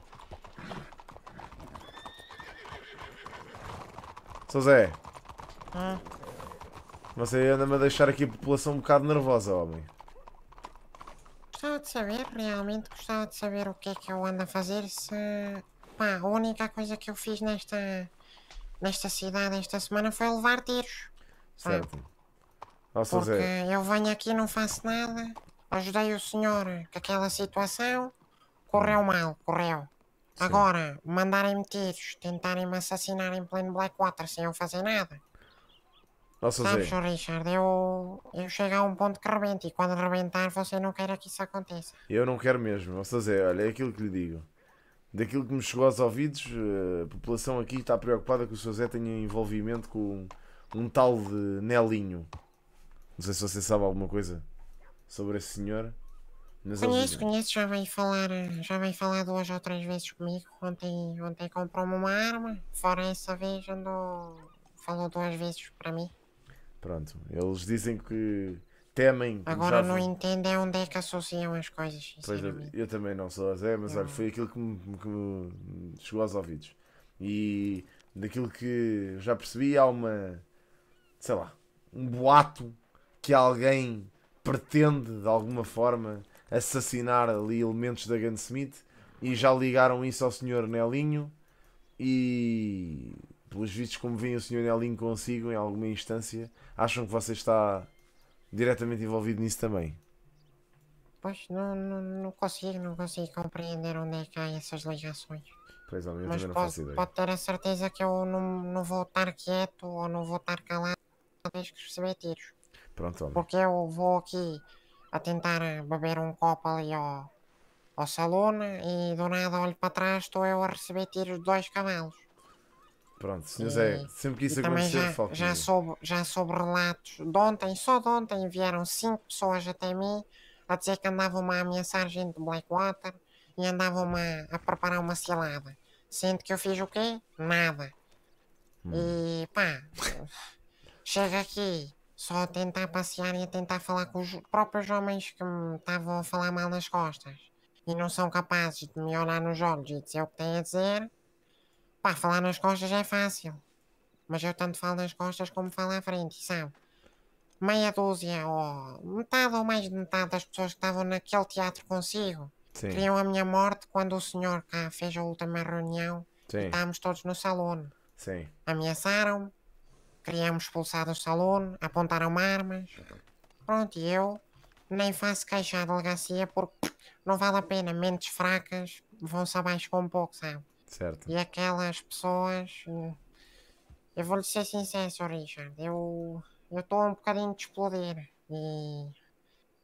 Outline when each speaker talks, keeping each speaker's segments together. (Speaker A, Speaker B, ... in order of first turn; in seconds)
Speaker A: 4.5-5.0, 7.1-9.9, 21.6-22.1, 22.9-23.5, 30.4-30.7, 36.4-37.0, 42.1-44.5, 45.1-52.3, 53.2-54.4, 55.1-56.0, 56.6-57.3, 66.8-70.1, 72.2-80.4, 81.2-91.3, 92.0-97.9, 98.5-100.0, 105.9-107.1, 113.0-113.5, 123.2-125.7, 138.8-139.2, 162.7-163.1, 166.5-166.8, 168.2-168.5, 180.9-181.3
Speaker B: 5.7-6.0, 11.5-18.1, 18.8-21.1, 21.6-21.9, 23.1-28.1, 28.7-35.2, 36.6-42.0, 56.8-66.1, 69.5-72.7, 73.9-74.2, 101.2-105.5, 106.2-112.5, 113.3-117.3, 118.0-122.2, 123.6-137.9, 138.9-140.5, 141.0-151.1, 152.0-153.6, 154.3-156.7, 157.6-167.9, 168.7-169.5, 170.2-173.0, 173.7-180.7, 181.3-183.2, 184.2-189.2